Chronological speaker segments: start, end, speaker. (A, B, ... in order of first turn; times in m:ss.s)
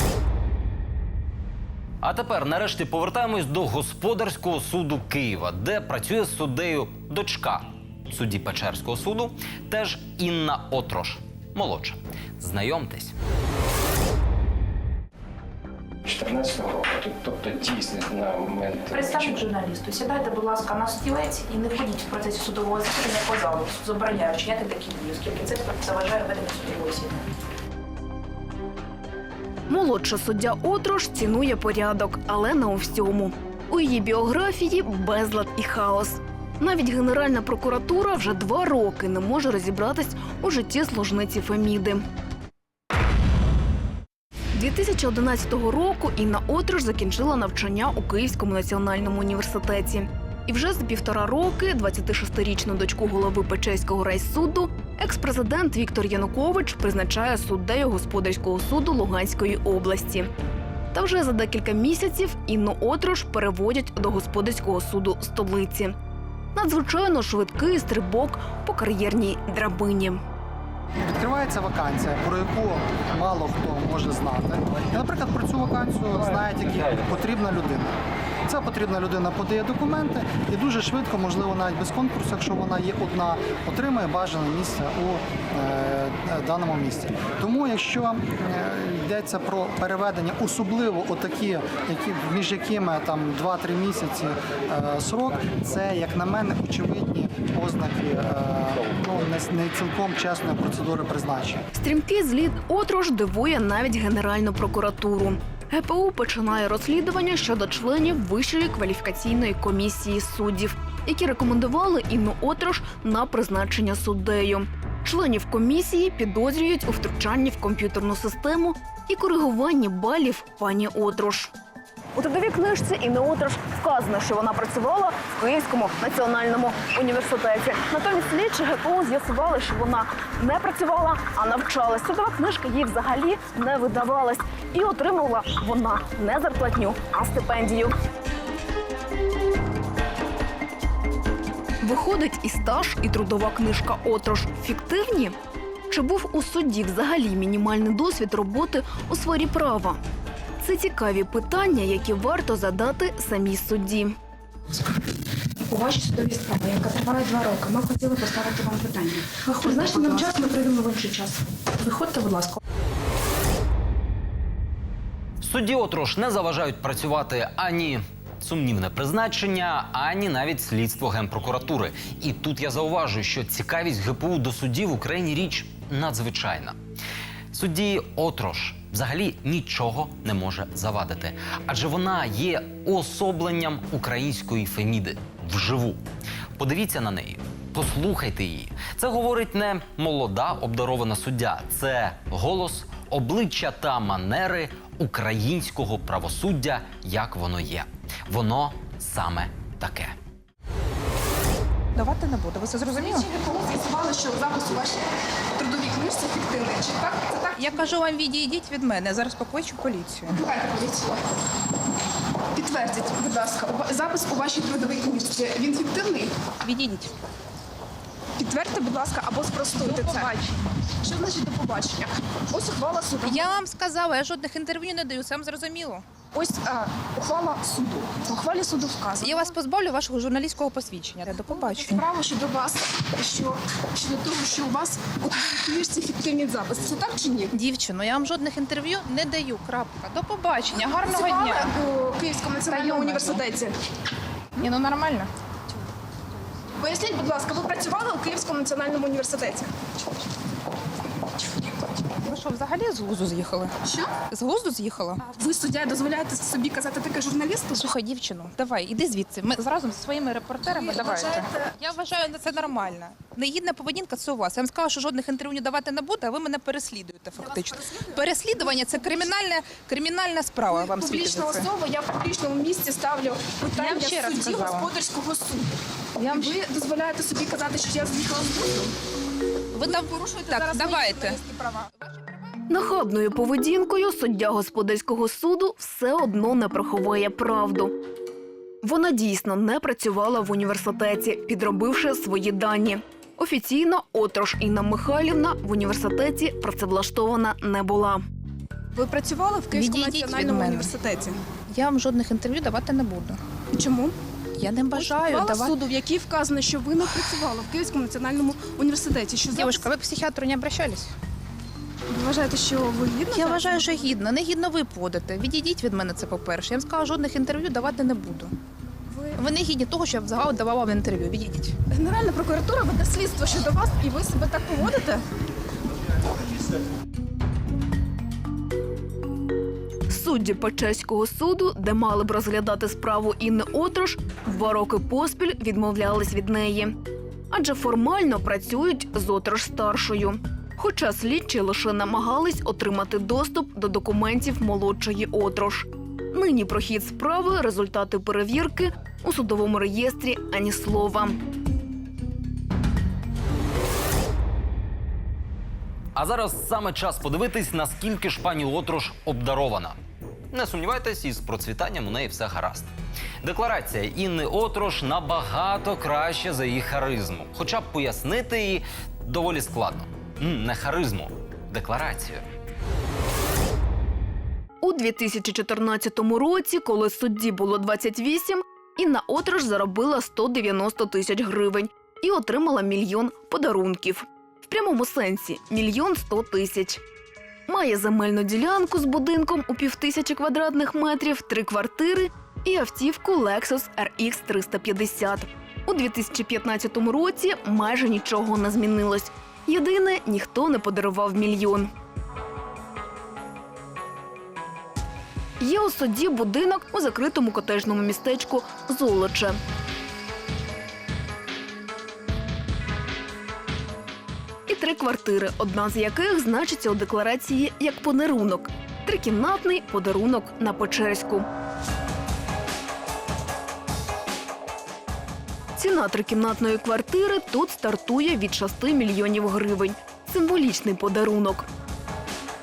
0:02.0-0:13.1 A
0:16.0-0:19.4 B
0:18.9-0:27.2 C
0:29.7-0:42.0 D
0:44.5-1:00.3 D
1:00.9-1:06.0 D
1:06.5-1:10.2 D
1:11.0-1:17.9 E
1:18.4-1:41.6 E
1:41.7-2:01.5 D
2:02.1-2:17.9 D
2:21.8-2:25.4 D
2:25.9-2:30.0 D
2:30.6-2:34.2 D
2:35.7-2:41.4 F
2:41.9-2:42.2 C
2:42.1-2:42.5 F
2:45.4-2:56.8 A
2:57.5-3:06.0 A
3:06.6-3:20.2 A
3:21.9-3:23.2 G
3:22.9-3:27.8 F
3:27.6-3:30.4 G
3:30.3-3:31.2 F
3:32.5-3:36.3 F
3:36.6-3:37.1 G
3:38.4-3:40.4 F
3:39.8-3:40.6 G
3:41.0-3:43.6 F
3:43.2-3:46.0 G
3:46.3-3:49.5 F
3:49.2-3:52.0 G
3:51.6-3:57.5 F
3:57.5-4:01.7 G
4:00.7-4:03.7 F
4:02.7-4:03.4 G
4:04.6-4:05.3 G
4:06.7-4:09.7 F
4:12.2-4:13.7 G
4:13.8-4:14.1 F
4:14.3-4:15.2 G
4:15.2-4:17.9 F
4:17.7-4:31.7 G
4:20.6-4:21.7 F
4:27.4-4:29.2 F
4:30.6-4:38.9 F
4:33.7-4:34.9 G
4:36.2-4:36.6 G
4:39.7-4:41.4 G
4:39.8-4:41.9 F
4:42.7-4:47.9 D
4:48.8-4:58.2 D
4:58.9-5:01.4 F
4:59.7-5:00.9 G
5:01.7-5:03.4 G
5:03.7-5:04.2 F
5:04.6-5:05.8 G
5:04.9-5:09.9 F
5:09.5-5:11.1 G
5:12.1-5:14.0 F
5:13.3-5:18.5 G
5:19.1-5:19.4 F
5:19.3-5:21.7 G
5:21.9-5:25.2 F
5:30.1-5:37.0 D
5:37.5-5:51.4 D
5:56.1-6:00.0 A
6:00.5-6:02.9 A
6:03.4-6:12.4 A
6:14.8-6:27.0 D
6:27.7-6:41.9 D
6:45.6-6:49.6 D
6:54.7-7:01.4 D
7:05.8-7:11.7 D